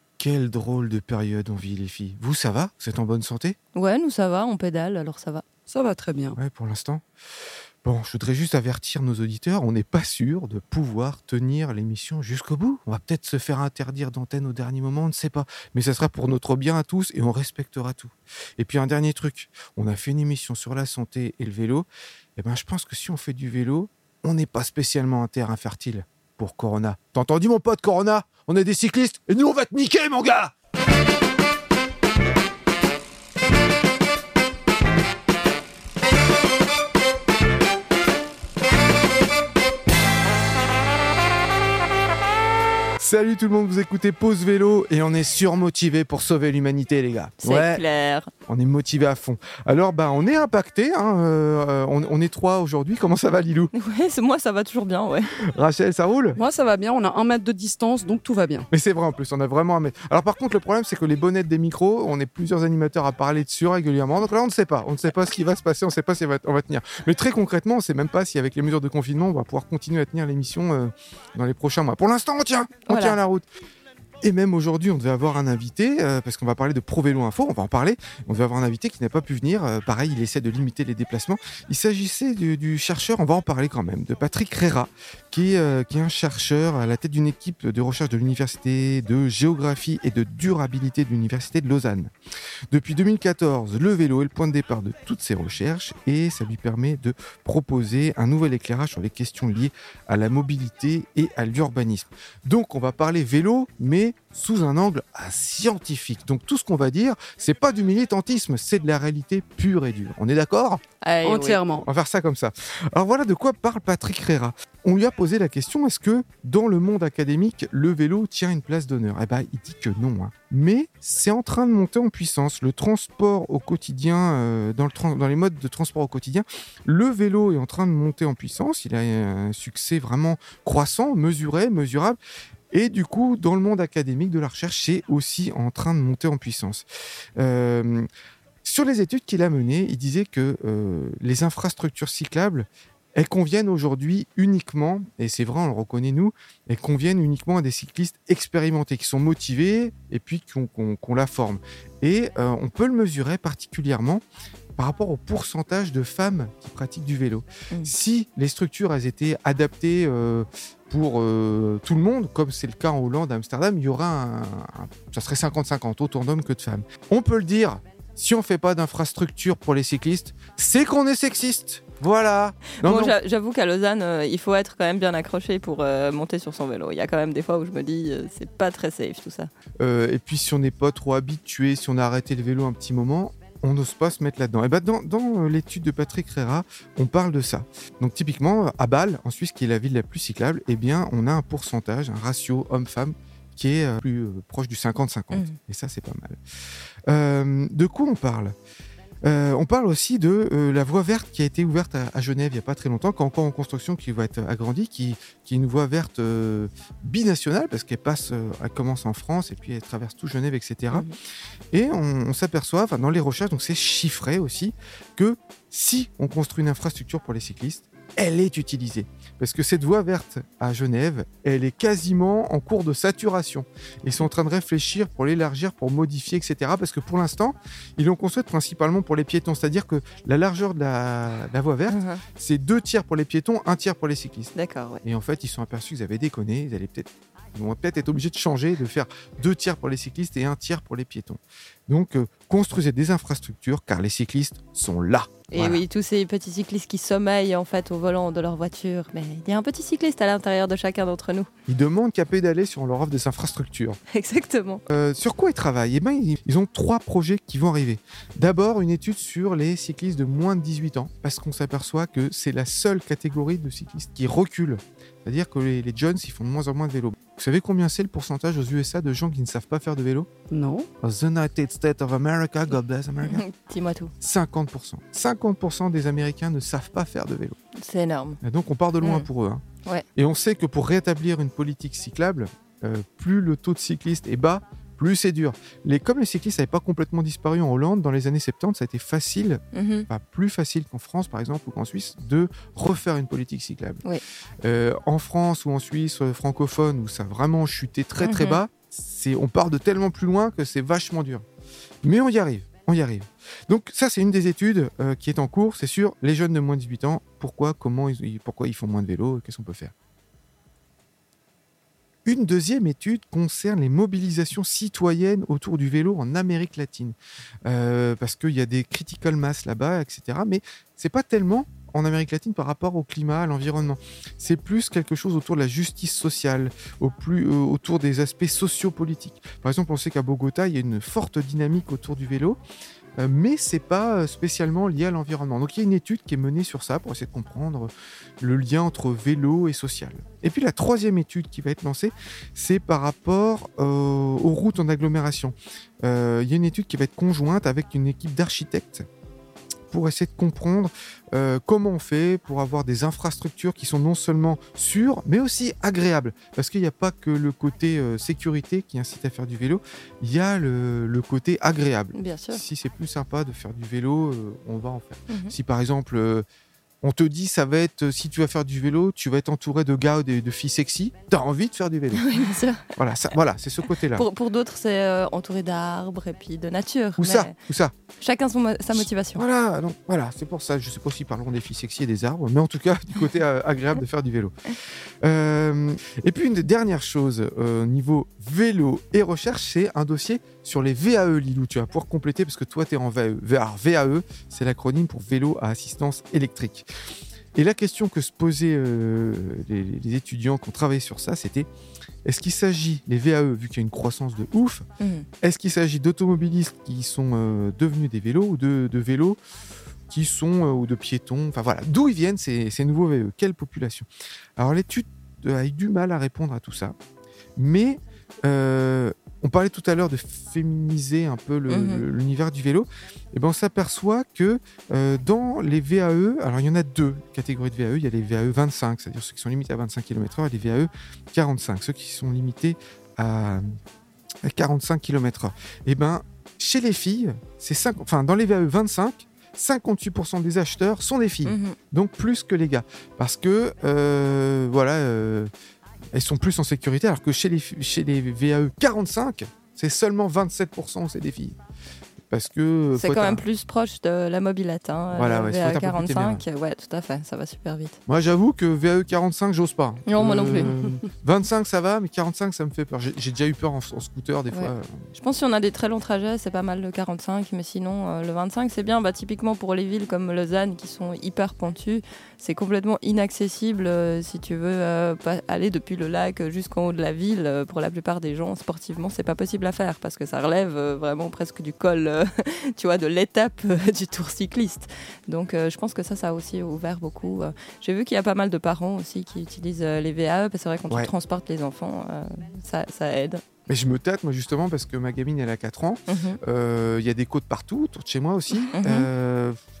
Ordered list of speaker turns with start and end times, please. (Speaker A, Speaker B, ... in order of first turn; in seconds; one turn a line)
Speaker A: 0.2-3.6
Speaker B: 3.7-5.4
Speaker C: 5.7-6.4
Speaker A: 6.3-7.0
Speaker A: 7.8-30.5
Speaker A: 43.0-47.8
Speaker B: 47.4-48.3
Speaker A: 48.5-53.7
Speaker B: 53.7-55.3
Speaker A: 55.4-56.4
Speaker C: 56.4-58.7
Speaker A: 58.7-73.5
Speaker B: 72.9-73.2
Speaker A: 74.2-92.1
Speaker A: 92.7-110.8
Speaker B: 111.0-111.6
Speaker C: 111.2-111.8
Speaker A: 111.8-132.2
Speaker A: 132.7-136.8
Speaker A: 137.4-138.1
Speaker A: 138.6-154.2
Speaker A: 154.8-173.1
Speaker B: 172.8-179.5
Speaker A: 179.8-196.4
Speaker B: 195.3-195.6
Speaker A: 197.1-198.5
Speaker A: 199.2-211.1
Speaker A: 211.7-234.5
Speaker B: 231.9-232.2
Speaker B: 234.5-235.0
Speaker A: 235.0-245.8
Speaker B: 245.5-251.5
Speaker A: 251.7-254.0
Speaker B: 254.1-254.8
Speaker A: 254.9-270.3
Speaker C: 270.5-270.9
Speaker A: 271.0-273.4
Speaker B: 273.2-274.1
Speaker A: 274.2-277.6
Speaker B: 277.8-278.4
Speaker A: 278.4-279.6
Speaker B: 279.0-279.3
Speaker A: 280.1-294.0
Speaker B: 289.7-290.1
Speaker A: 294.6-301.4
Speaker B: 298.2-298.6
Speaker A: 302.0-309.9
Speaker A: 312.2-332.6
Speaker A: 333.2-349.1
Speaker A: 349.9-366.4
Speaker B: 362.1-362.6
Speaker B: 365.3-365.5
Speaker A: 367.0-372.2
Speaker B: 372.1-372.8
Speaker A: 372.9-374.2
Speaker B: 374.1-377.5
Speaker A: 377.2-377.9
Speaker B: 378.2-379.4
Speaker A: 378.9-384.5
Speaker A: 385.2-396.9
Speaker A: 397.5-401.7
Speaker A: 402.2-404.9
Speaker B: 405.0-405.3
Speaker A: 405.4-409.4
Speaker A: 410.1-416.9
Speaker A: 417.6-433.7
Speaker B: 421.7-422.0
Speaker A: 434.4-445.5
Speaker B: 441.4-441.8
Speaker A: 446.1-451.6
Speaker A: 452.3-453.4
Speaker B: 452.9-457.9
Speaker A: 455.1-456.4
Speaker A: 458.1-465.0
Speaker B: 460.1-460.9
Speaker B: 464.5-493.4
Speaker A: 493.7-499.6
Speaker B: 496.1-496.4
Speaker B: 498.7-499.1